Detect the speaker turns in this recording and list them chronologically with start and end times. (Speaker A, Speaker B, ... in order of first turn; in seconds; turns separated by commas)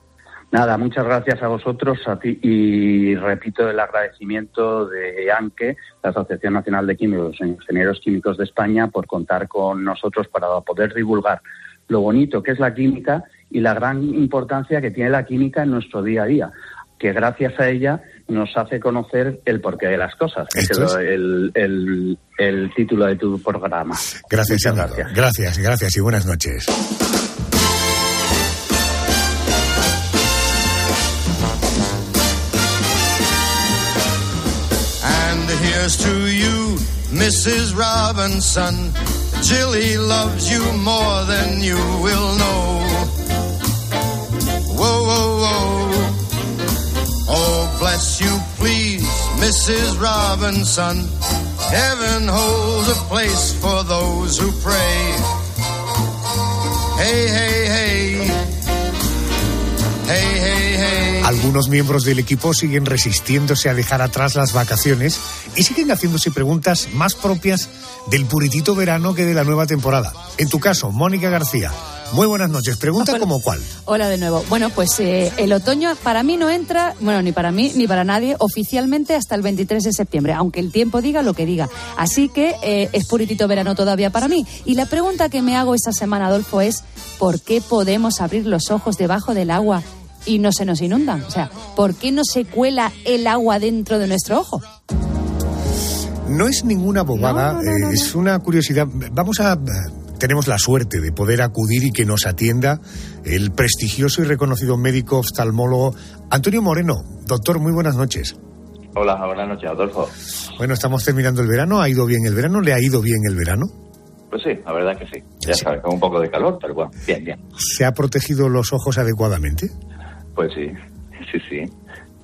Speaker A: 0.5-25.1, Speaker B: 20.5-20.9, Speaker B: 24.3-26.7, Speaker C: 35.0-43.1, Speaker C: 44.7-46.2, Speaker C: 47.2-51.1, Speaker C: 51.7-55.3, Speaker C: 57.0-58.4, Speaker C: 60.1-61.3, Speaker B: 61.2-73.7, Speaker D: 73.0-73.3, Speaker D: 73.8-94.7, Speaker B: 96.2-108.3, Speaker D: 97.1-98.1, Speaker E: 108.9-110.1, Speaker B: 110.6-113.7, Speaker E: 114.3-117.4, Speaker B: 117.6-119.7, Speaker E: 120.3-121.7